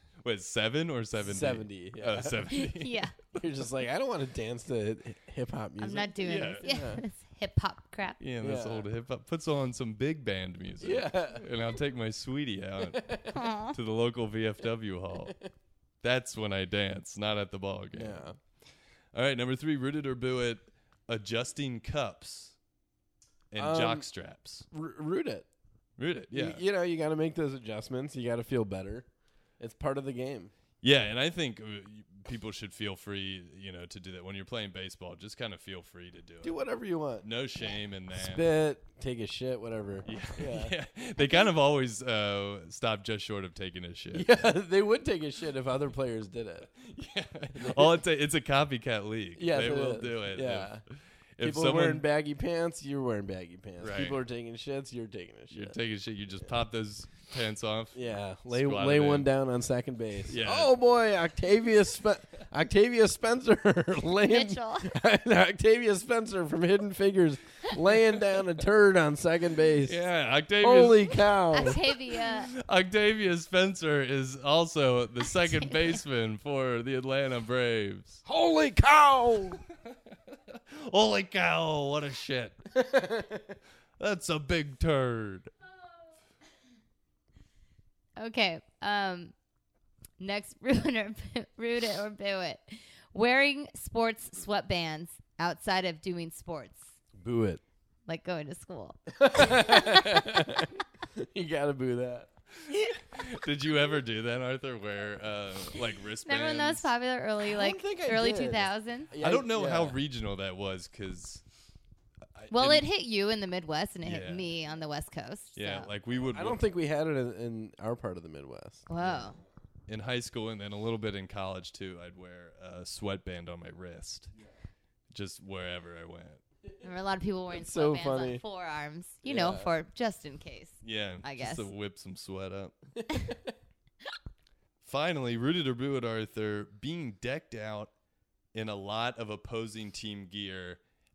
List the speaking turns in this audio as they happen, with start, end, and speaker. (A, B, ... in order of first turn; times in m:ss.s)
0:00.2-0:03.4 A
0:01.2-0:02.5 B
0:02.5-0:03.2 C
0:03.4-0:07.0 B
0:05.8-0:08.2 C
0:06.2-0:06.7 A
0:08.2-0:15.4 A
0:08.4-0:08.9 B
0:10.8-0:11.4 B
0:12.8-0:13.2 B
0:13.3-0:13.8 C
0:16.0-0:18.3 A
0:17.9-0:18.4 B
0:19.1-0:22.6 A
0:23.5-0:24.7 A
0:23.6-0:24.1 B
0:24.7-0:25.5 B
0:26.0-0:26.6 A
0:26.3-0:29.1 B
0:29.6-0:30.5 B
0:30.8-0:36.6 A
0:36.4-0:37.3 B
0:37.2-0:38.5 A
0:38.1-0:40.7 B
0:40.1-0:44.5 A
0:44.1-0:46.7 B
0:46.8-0:50.8 A
0:47.6-0:48.0 B
0:49.4-0:50.8 B
0:51.4-0:52.0 A
0:51.4-0:55.8 B
0:53.8-0:54.2 A
0:55.5-0:59.3 A
0:58.0-1:10.0 B
1:00.3-1:00.7 A
1:04.2-1:04.9 C
1:09.8-1:18.2 A
1:10.6-1:11.8 B
1:11.5-1:12.5 C
1:15.3-1:16.0 C
1:18.3-1:19.6 B
1:20.5-1:22.8 A
1:22.8-1:23.6 B
1:24.0-1:25.5 A
1:28.2-1:29.3 C
1:30.2-1:37.0 C
1:37.2-1:37.6 B
1:38.1-1:40.6 C
1:39.1-1:42.3 B
1:42.7-1:46.9 A
1:46.2-1:49.1 C
1:47.4-1:50.0 B
1:49.2-1:51.4 A
1:52.4-1:52.9 A
1:52.5-1:55.9 C
1:54.0-1:54.5 A
1:55.6-1:56.6 A
1:56.3-1:58.9 B
1:58.9-1:59.4 C
1:59.9-2:04.3 A
2:05.1-2:06.4 A
2:06.8-2:11.7 C
2:07.5-2:08.4 B
2:09.2-2:09.7 B
2:10.8-2:12.8 A
2:14.8-2:17.9 A
2:18.5-2:20.8 A